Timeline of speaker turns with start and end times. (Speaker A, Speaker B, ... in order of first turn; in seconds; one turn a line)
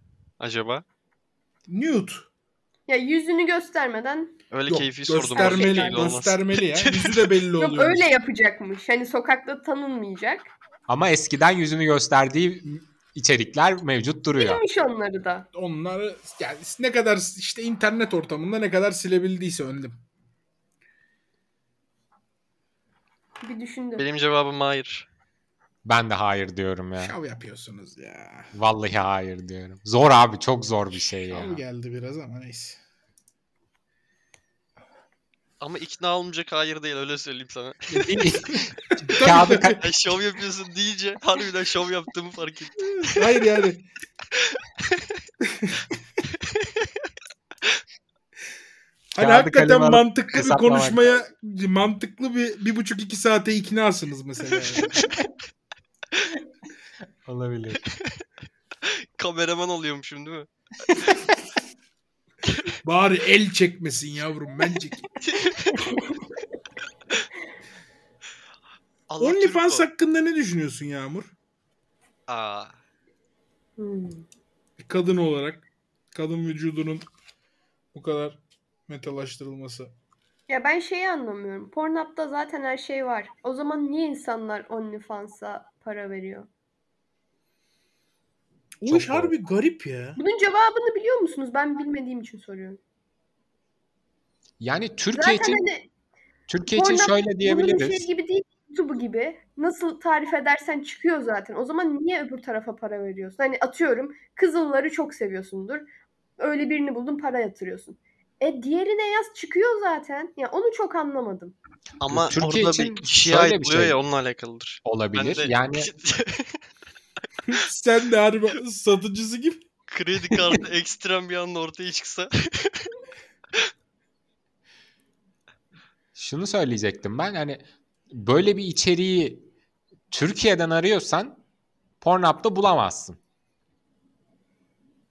Speaker A: 0.4-0.8
Speaker B: 1.7-2.3
Speaker C: 2.9-4.3
Speaker A: 4.5-7.3
Speaker B: 4.7-8.1
Speaker C: 5.3-6.0
Speaker C: 7.6-10.5
Speaker D: 10.9-14.6
Speaker C: 14.4-15.4
Speaker B: 15.5-19.9
Speaker C: 23.4-24.1
Speaker A: 24.0-25.1
Speaker D: 25.8-27.1
Speaker B: 27.0-28.5
Speaker D: 28.5-31.6
Speaker B: 31.2-32.8
Speaker A: 35.6-38.3
Speaker D: 37.9-39.8
Speaker B: 39.0-39.8
Speaker A: 39.8-43.2
Speaker B: 43.0-43.8
Speaker A: 44.5-45.0
Speaker B: 45.4-45.9
Speaker A: 46.5-46.8
Speaker B: 49.1-55.1
Speaker D: 49.2-51.0
Speaker A: 54.8-55.1
Speaker D: 57.2-57.8
Speaker A: 57.9-58.2
Speaker A: 58.8-60.5
Speaker A: 62.5-62.7
Speaker B: 62.8-65.1
Speaker A: 65.2-65.9
Speaker A: 69.1-69.9
Speaker B: 69.2-71.3
Speaker A: 72.3-72.8
Speaker C: 73.8-74.2
Speaker B: 74.8-77.0
Speaker B: 77.9-79.9
Speaker C: 80.5-86.5
Speaker B: 88.8-90.2
Speaker D: 88.9-89.3
Speaker C: 90.2-92.8
Speaker D: 94.6-95.6
Speaker C: 95.1-95.9
Speaker D: 96.5-98.1
Speaker C: 96.7-105.9
Speaker C: 106.4-111.5
Speaker A: 112.0-116.6
Speaker D: 112.1-114.0
Speaker D: 114.8-115.9
Speaker B: 117.5-119.6
Speaker A: 119.9-122.9
Speaker D: 126.1-129.5
Speaker D: 130.1-131.4
Speaker D: 132.0-133.2